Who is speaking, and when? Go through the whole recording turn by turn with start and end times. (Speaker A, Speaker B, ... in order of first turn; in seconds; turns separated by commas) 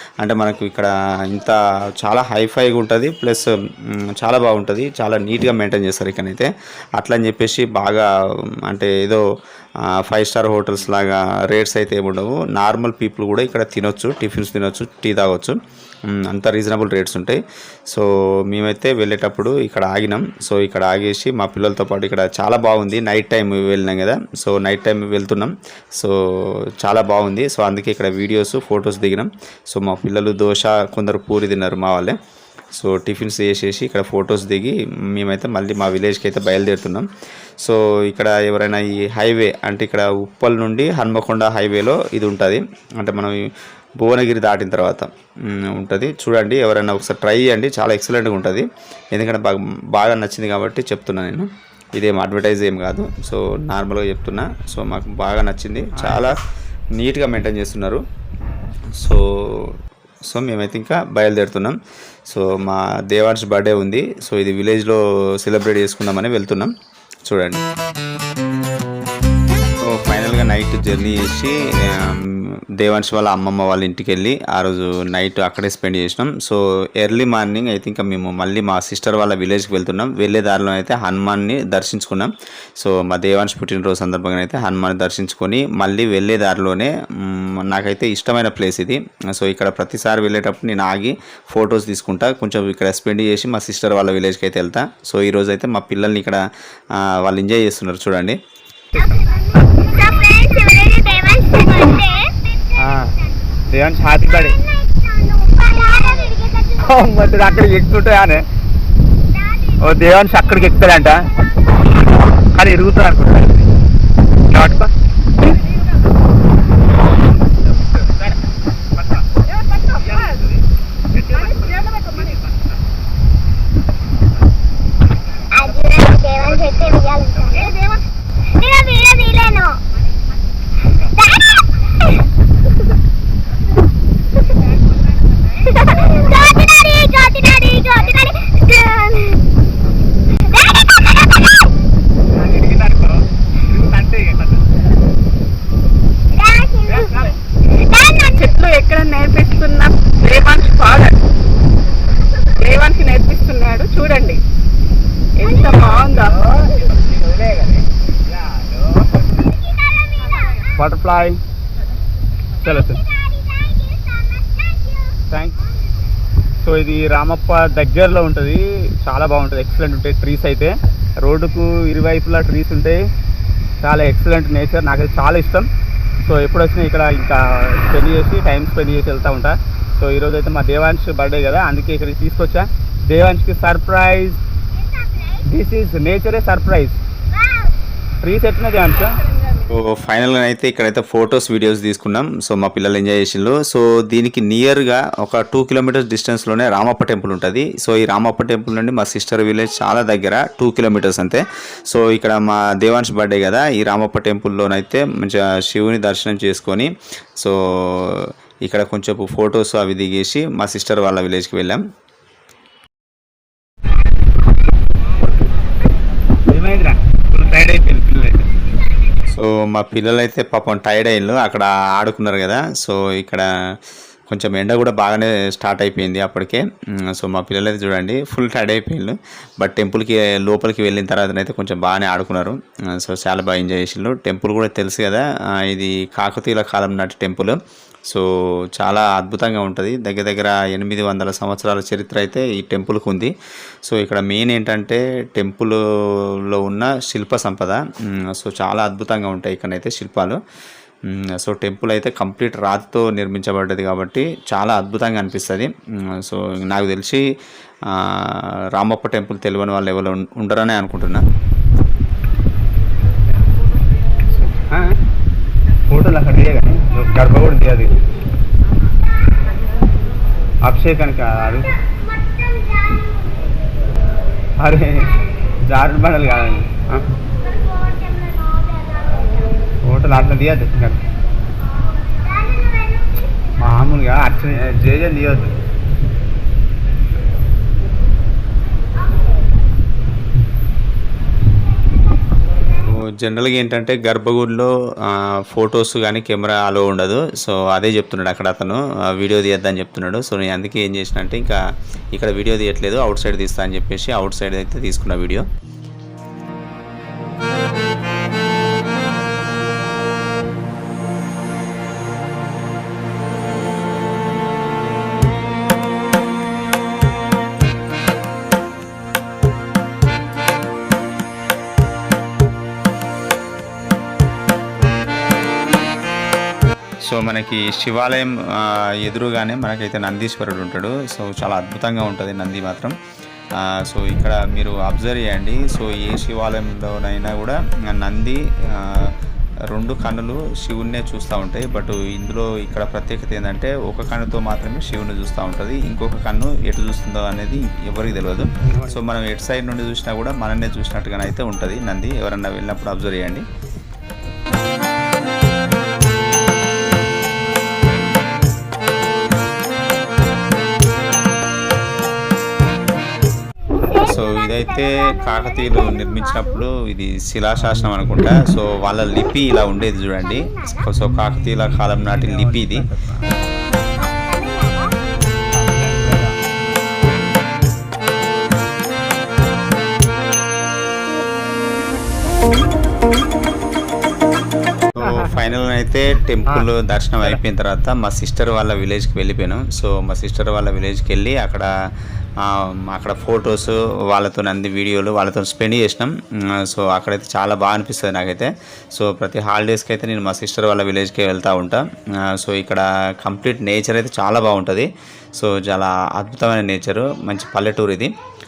Speaker A: 0.2-8.1, Speaker A: 8.7-9.2, Speaker A: 9.9-15.6, Speaker A: 16.1-32.2, Speaker A: 32.8-37.1, Speaker A: 37.6-43.4, Speaker A: 44.0-56.4, Speaker B: 56.0-56.3, Speaker A: 57.0-58.0, Speaker A: 59.0-61.8, Speaker A: 62.3-66.7, Speaker A: 67.3-67.6, Speaker A: 69.8-96.4, Speaker A: 97.0-98.4, Speaker C: 99.0-102.3, Speaker B: 102.8-103.2, Speaker B: 103.7-104.6, Speaker C: 104.7-106.8, Speaker B: 106.8-108.4, Speaker C: 109.3-109.8, Speaker B: 109.8-111.3, Speaker B: 112.3-113.7, Speaker B: 114.5-114.9, Speaker D: 119.7-120.3, Speaker C: 121.8-122.0, Speaker D: 121.8-122.5, Speaker C: 125.5-127.8, Speaker C: 128.4-129.8, Speaker C: 131.0-132.1, Speaker C: 135.6-139.4, Speaker C: 140.3-141.7, Speaker B: 142.4-143.1, Speaker B: 143.8-144.4, Speaker C: 146.3-148.4, Speaker D: 147.9-151.2, Speaker D: 152.6-154.4, Speaker D: 155.4-156.4, Speaker B: 157.1-157.7, Speaker C: 159.7-160.4, Speaker B: 160.8-161.4, Speaker B: 162.6-163.0, Speaker C: 163.1-164.7, Speaker B: 165.3-165.6, Speaker B: 166.6-173.0, Speaker B: 173.8-175.7, Speaker B: 176.2-184.4, Speaker C: 185.2-185.4, Speaker B: 185.4-187.0, Speaker B: 188.2-189.2, Speaker A: 189.6-211.8, Speaker B: 216.5-218.5, Speaker A: 219.3-223.8, Speaker A: 224.3-243.3, Speaker A: 243.9-245.8, Speaker A: 246.3-250.4, Speaker A: 251.1-257.2, Speaker A: 257.9-261.2, Speaker B: 264.4-265.0, Speaker B: 265.9-267.9, Speaker B: 270.6-271.7, Speaker B: 274.6-277.1, Speaker C: 277.7-278.9, Speaker B: 279.8-281.0, Speaker B: 283.6-285.5, Speaker A: 292.8-301.6, Speaker A: 302.1-305.5, Speaker A: 327.1-332.9, Speaker A: 333.6-339.1, Speaker A: 339.7-353.5, Speaker B: 348.7-349.0, Speaker A: 363.9-372.9, Speaker B: 372.1-373.2, Speaker C: 374.1-374.9, Speaker B: 375.5-376.4, Speaker A: 384.9-391.7, Speaker A: 392.4-408.1